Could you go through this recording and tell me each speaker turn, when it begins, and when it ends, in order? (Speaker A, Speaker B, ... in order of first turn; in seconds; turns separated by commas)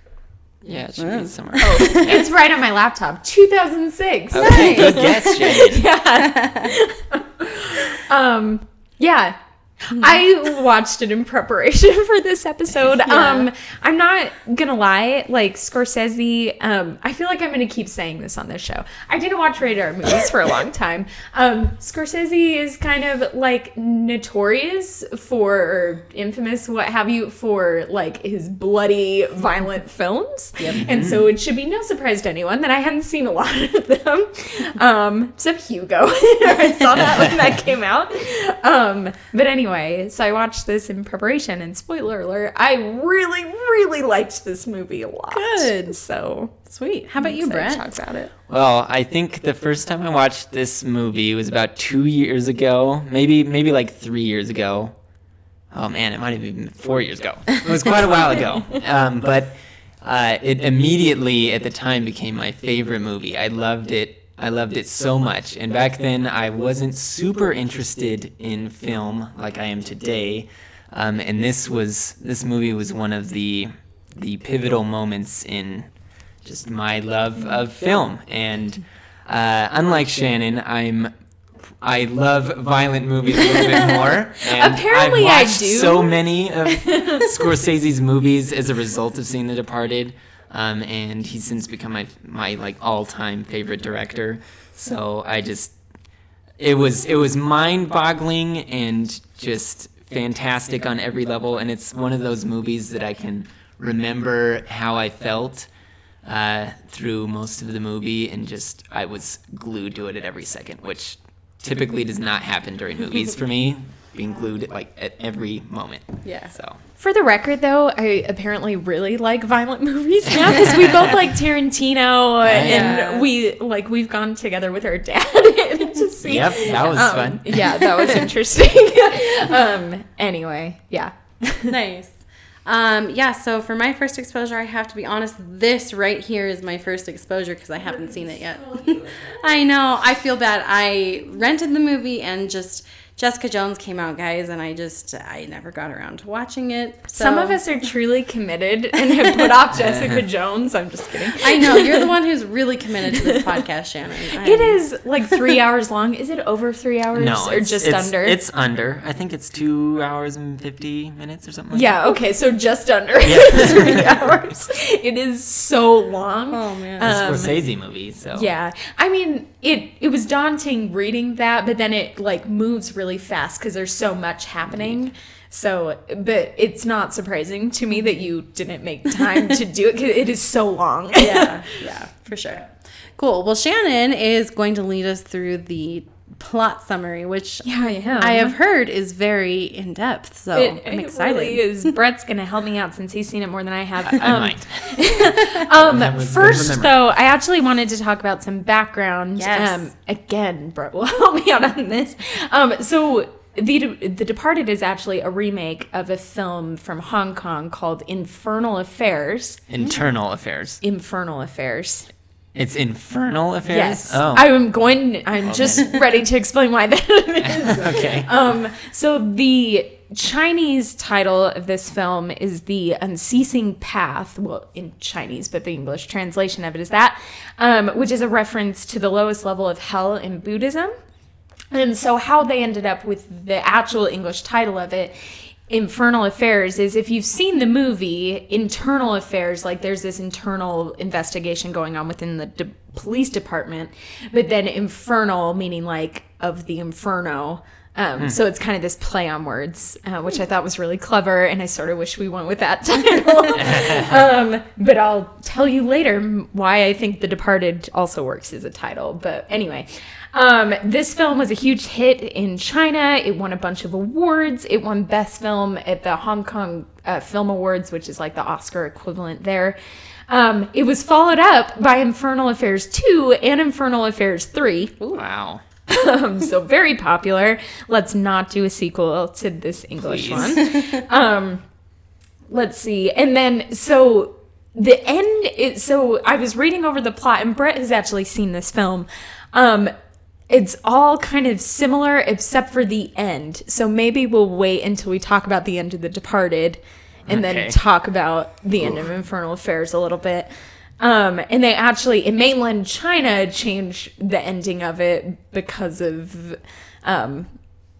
Speaker A: 0.6-2.2, Speaker B: 1.0-2.1, Speaker C: 1.6-46.5, Speaker A: 4.3-5.9, Speaker B: 4.4-5.5, Speaker B: 6.3-6.7, Speaker B: 13.1-13.5, Speaker A: 30.8-31.2, Speaker B: 45.3-46.0, Speaker B: 46.6-47.8, Speaker C: 47.2-48.3, Speaker A: 48.5-54.9, Speaker A: 55.7-75.9, Speaker A: 76.4-81.1, Speaker A: 81.8-95.7, Speaker C: 83.7-86.1, Speaker C: 86.7-87.3, Speaker A: 96.6-105.7, Speaker A: 106.2-116.8, Speaker B: 116.2-116.5, Speaker C: 117.0-131.7, Speaker A: 120.5-121.1, Speaker A: 122.4-123.0, Speaker B: 122.6-123.3, Speaker A: 126.2-128.3, Speaker B: 131.7-147.6, Speaker C: 138.1-139.2, Speaker C: 147.1-152.1, Speaker B: 149.1-149.5, Speaker A: 149.7-150.2, Speaker B: 151.3-154.8, Speaker C: 153.2-153.6, Speaker C: 154.4-158.4, Speaker A: 157.1-161.9, Speaker C: 161.7-167.6, Speaker A: 163.2-164.2, Speaker B: 166.5-167.2, Speaker A: 167.0-168.5, Speaker C: 168.3-181.8, Speaker B: 181.2-191.9, Speaker C: 187.6-188.6, Speaker C: 190.5-209.6, Speaker A: 194.1-197.0, Speaker B: 199.4-199.9, Speaker A: 209.7-210.8, Speaker C: 210.8-212.1, Speaker A: 212.5-214.5, Speaker C: 213.7-230.9, Speaker A: 215.4-215.9, Speaker A: 217.5-218.3, Speaker C: 231.7-235.1, Speaker C: 235.7-269.8, Speaker A: 253.6-254.2, Speaker C: 270.3-275.2, Speaker A: 275.1-275.6, Speaker C: 275.9-281.6, Speaker A: 280.0-280.6, Speaker C: 282.5-289.9, Speaker C: 290.5-307.5, Speaker A: 297.3-297.8